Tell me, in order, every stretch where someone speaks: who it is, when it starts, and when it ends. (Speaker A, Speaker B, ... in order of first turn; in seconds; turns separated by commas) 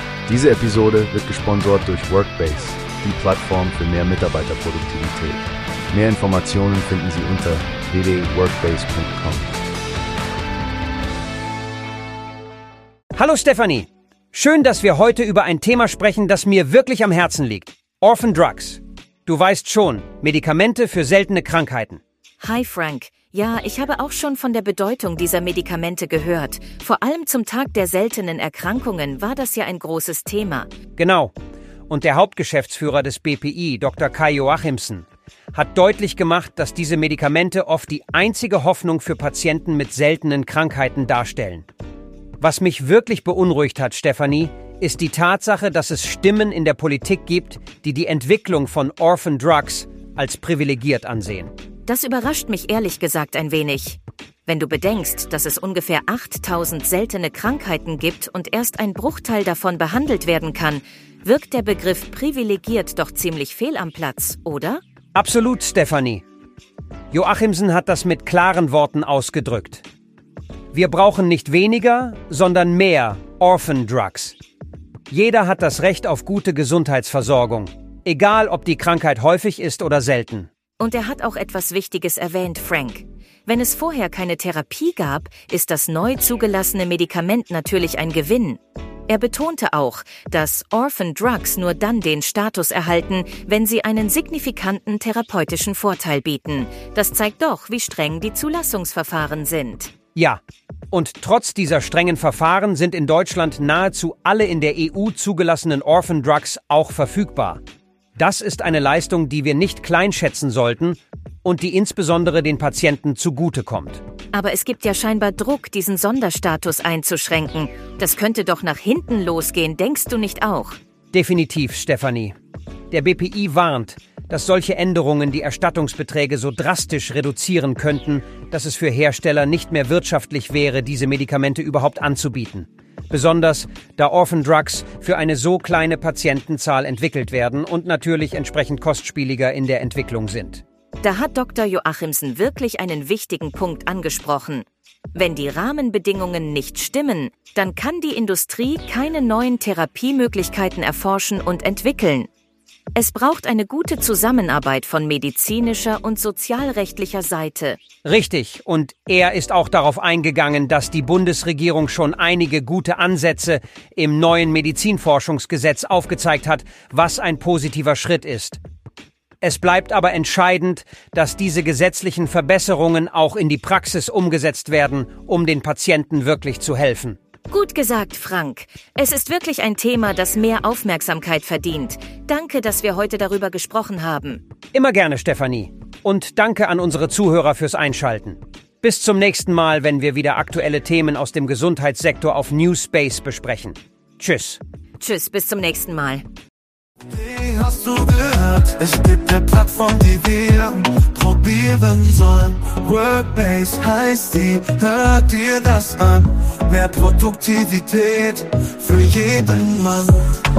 Speaker A: 0.3-9.7, Speaker B: 13.1-22.0, Speaker C: 22.4-30.7, Speaker B: 31.0-31.3, Speaker B: 31.9-41.7, Speaker B: 42.4-51.5, Speaker C: 51.9-64.8, Speaker B: 65.2-66.2, Speaker B: 67.1-69.8, Speaker B: 70.7-74.4, Speaker B: 75.1-80.5, Speaker C: 80.8-99.9, Speaker B: 100.2-100.4, Speaker B: 100.9-107.6, Speaker B: 108.2-114.0, Speaker C: 114.3-120.8, Speaker B: 121.1-122.3, Speaker B: 122.9-140.6, Speaker C: 141.0-152.3, Speaker C: 152.9-157.8, Speaker B: 158.0-168.6, Speaker B: 169.4-177.2, Speaker C: 177.5-184.4, Speaker B: 184.7-194.6, Speaker C: 195.0-196.2, Speaker D: 197.1-210.4